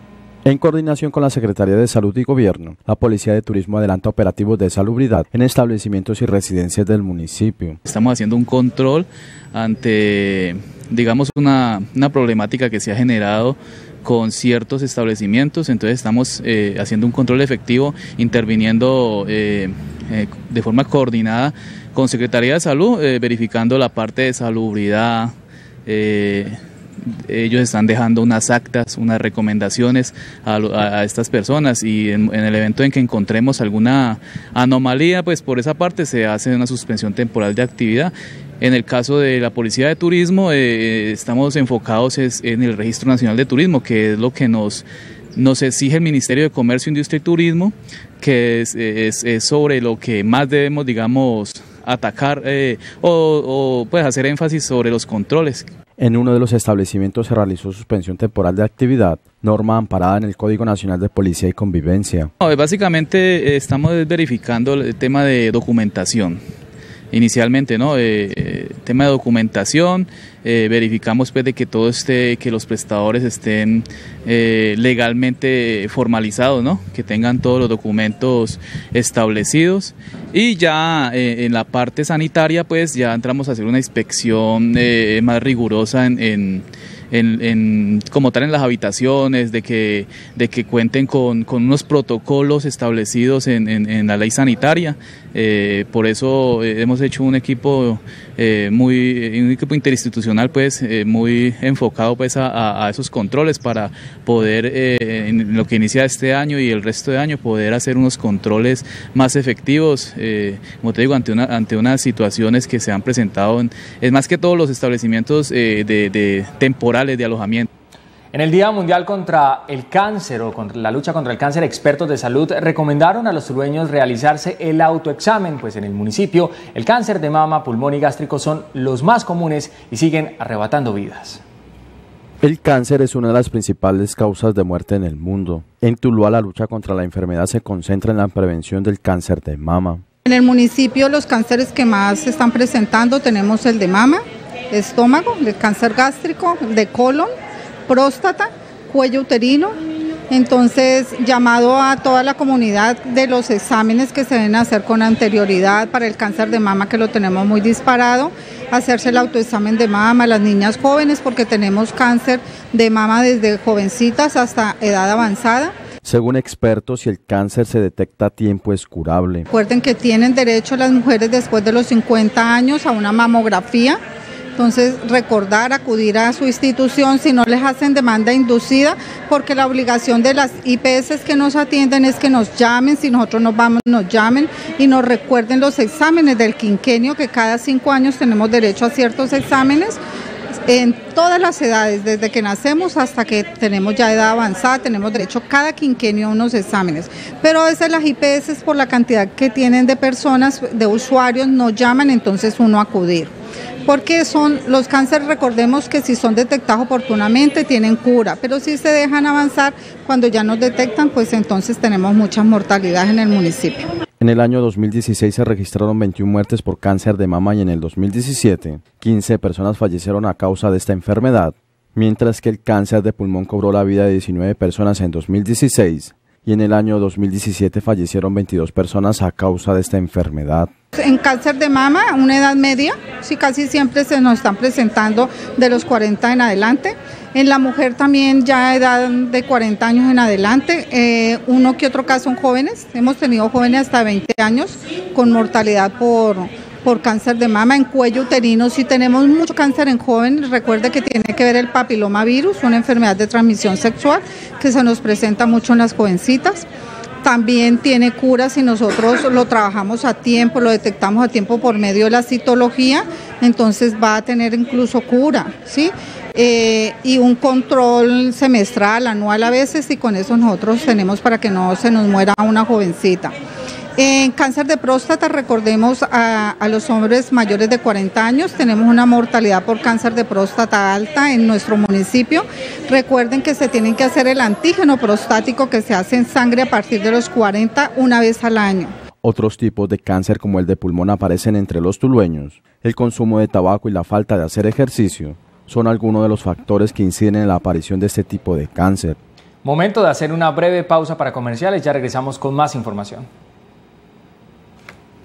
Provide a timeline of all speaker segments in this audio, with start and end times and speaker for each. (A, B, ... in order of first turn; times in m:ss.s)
0:00.4-0:07.8 A
0:07.9-0:25.3 B
0:25.9-0:55.7 B
0:56.0-1:02.3 A
1:02.4-1:06.4 B
1:07.1-1:57.7 B
1:58.3-2:11.4 C
2:12.4-2:20.0 A
2:20.3-2:27.3 D
2:27.9-2:29.8 D
2:30.3-2:45.7 D
2:46.0-2:49.5 A
2:49.5-2:54.0 D
2:54.6-3:10.0 D
3:10.7-3:23.3 D
3:23.9-3:33.9 D
3:34.2-3:50.7 A
3:51.0-4:16.6 D
4:17.2-4:33.4 D
4:34.0-4:48.9 D
4:49.2-4:59.2 A
4:59.6-5:03.3 C